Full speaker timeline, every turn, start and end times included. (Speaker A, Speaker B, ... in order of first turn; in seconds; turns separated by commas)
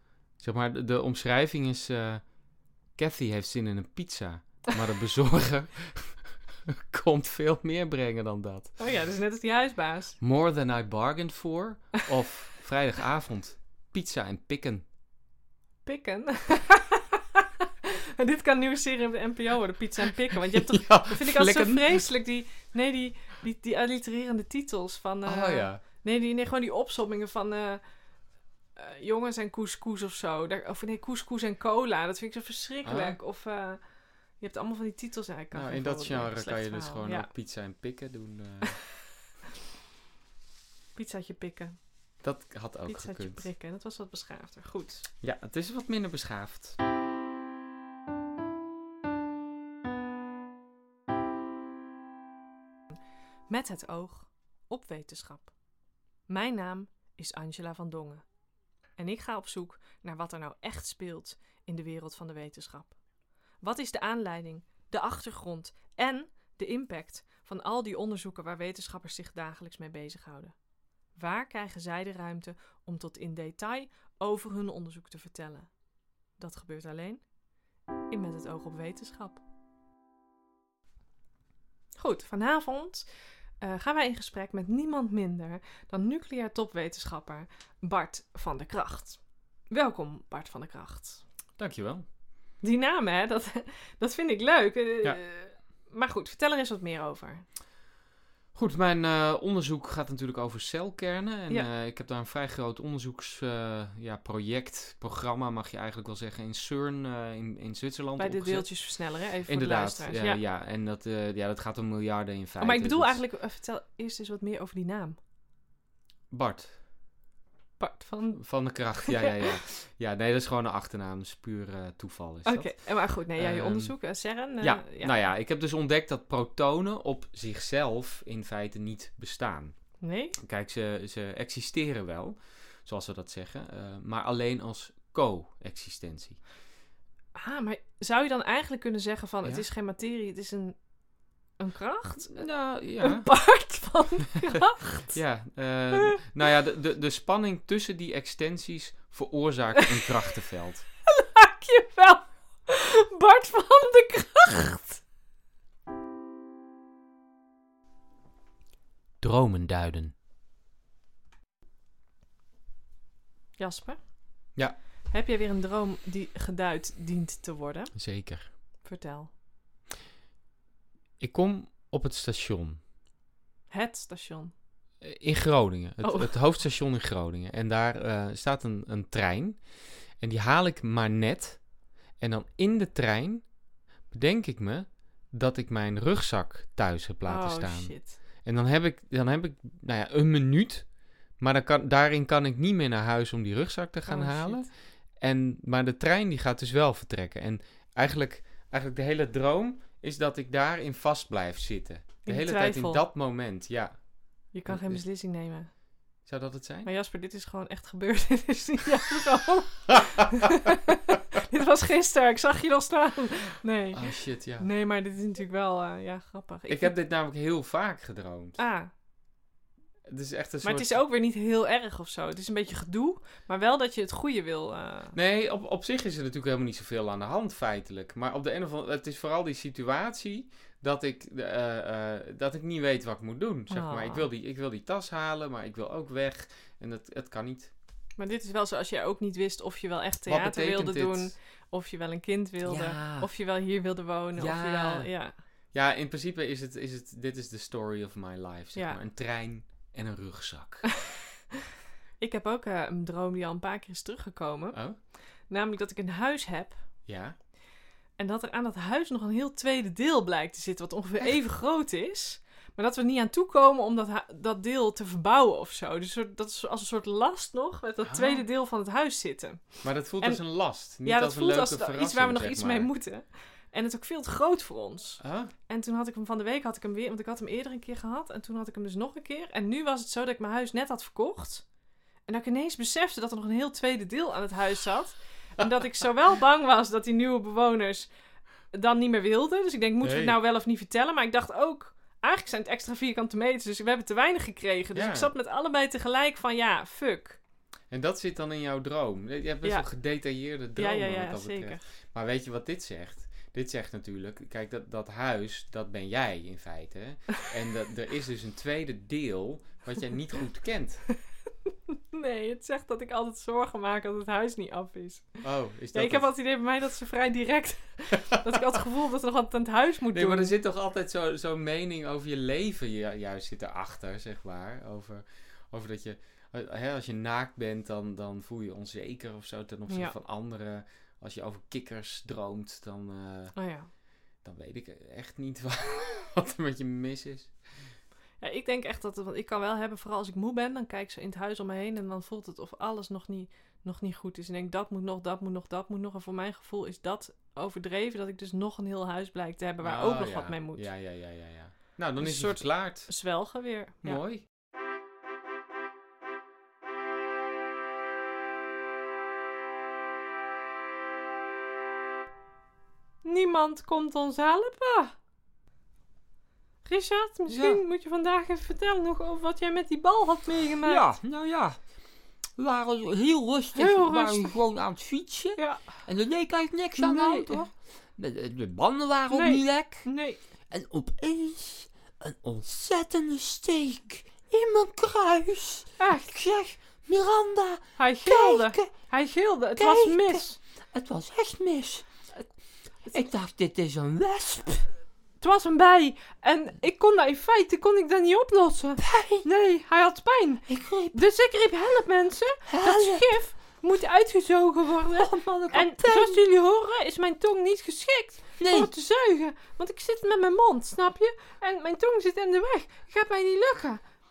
Speaker A: 0.4-2.2, Speaker A: 3.0-8.8, Speaker B: 8.8-10.2, Speaker A: 10.2-14.8, Speaker B: 15.9-27.8, Speaker A: 20.5-22.0, Speaker A: 25.3-25.8, Speaker B: 28.8-33.8, Speaker A: 32.9-33.2, Speaker B: 34.4-37.3, Speaker A: 35.5-38.8, Speaker B: 41.0-41.8, Speaker A: 42.2-43.5, Speaker B: 42.9-45.1, Speaker A: 45.2-46.8, Speaker B: 53.5-55.5, Speaker B: 56.3-58.2, Speaker B: 59.0-62.9, Speaker B: 63.6-70.5, Speaker B: 71.2-75.7, Speaker B: 76.4-77.2, Speaker B: 78.1-79.4, Speaker B: 82.0-83.1, Speaker B: 83.6-89.2, Speaker B: 89.7-91.2, Speaker A: 91.6-92.0, Speaker B: 92.6-97.4, Speaker A: 98.5-108.7, Speaker B: 108.2-110.4, Speaker A: 109.5-113.2, Speaker B: 112.6-115.2, Speaker A: 116.3-116.8, Speaker B: 117.8-118.4, Speaker A: 118.4-122.7, Speaker B: 119.1-119.6, Speaker B: 122.4-125.1, Speaker A: 123.4-123.9, Speaker A: 124.6-129.8, Speaker B: 130.0-130.4, Speaker A: 130.4-136.4, Speaker B: 137.3-140.8, Speaker B: 141.6-142.5, Speaker A: 142.3-143.3, Speaker B: 143.0-145.2, Speaker A: 145.1-150.9, Speaker B: 145.9-146.2, Speaker B: 151.1-155.0, Speaker A: 159.2-160.1, Speaker B: 163.6-164.0, Speaker B: 165.1-167.9, Speaker A: 167.9-168.5, Speaker B: 168.8-169.3, Speaker A: 171.2-172.8, Speaker B: 173.7-174.5, Speaker A: 175.0-179.6, Speaker B: 176.0-176.3, Speaker A: 180.2-181.6, Speaker A: 182.2-183.4, Speaker A: 184.1-190.9, Speaker B: 187.3-188.2, Speaker A: 191.4-194.7, Speaker B: 194.1-194.7, Speaker A: 195.2-204.0, Speaker B: 202.3-203.0, Speaker B: 204.5-205.7, Speaker A: 204.7-205.0, Speaker A: 206.3-206.9, Speaker B: 206.8-216.9, Speaker A: 213.9-214.7, Speaker A: 216.7-218.6, Speaker B: 218.6-218.9, Speaker A: 220.1-221.0, Speaker B: 220.6-225.1, Speaker A: 225.1-237.7, Speaker B: 233.7-234.3, Speaker B: 238.2-245.3, Speaker A: 240.3-241.3, Speaker C: 242.7-243.2, Speaker A: 244.4-245.1, Speaker A: 245.7-250.9, Speaker B: 252.2-254.8, Speaker B: 255.5-256.8, Speaker A: 257.1-257.4, Speaker B: 258.2-270.4, Speaker A: 268.1-268.4, Speaker A: 269.8-272.9, Speaker B: 271.0-281.6, Speaker A: 275.2-275.5, Speaker B: 282.3-288.1, Speaker B: 288.7-297.4, Speaker A: 290.0-290.4, Speaker A: 294.9-295.3, Speaker A: 297.9-311.0, Speaker B: 300.8-301.8, Speaker B: 311.7-315.4, Speaker A: 315.4-316.3, Speaker B: 315.9-320.5, Speaker A: 318.3-318.6, Speaker A: 320.1-333.5, Speaker B: 329.9-330.1, Speaker B: 333.6-333.9, Speaker A: 334.4-337.5, Speaker B: 338.4-350.9, Speaker A: 349.8-353.1, Speaker B: 352.2-354.2, Speaker A: 354.0-354.4, Speaker B: 363.2-365.1, Speaker B: 366.9-371.1, Speaker A: 370.9-371.3, Speaker C: 371.3-371.8, Speaker C: 372.6-380.1, Speaker B: 373.8-374.5, Speaker B: 375.6-375.9, Speaker B: 376.9-377.7, Speaker B: 379.3-380.4, Speaker C: 380.7-388.9, Speaker B: 386.0-386.4, Speaker B: 388.0-390.6, Speaker C: 389.8-392.3, Speaker C: 393.1-394.9, Speaker B: 395.4-414.0, Speaker C: 399.0-399.4, Speaker C: 400.7-401.2, Speaker C: 402.7-403.4, Speaker C: 405.1-406.4, Speaker C: 408.6-408.9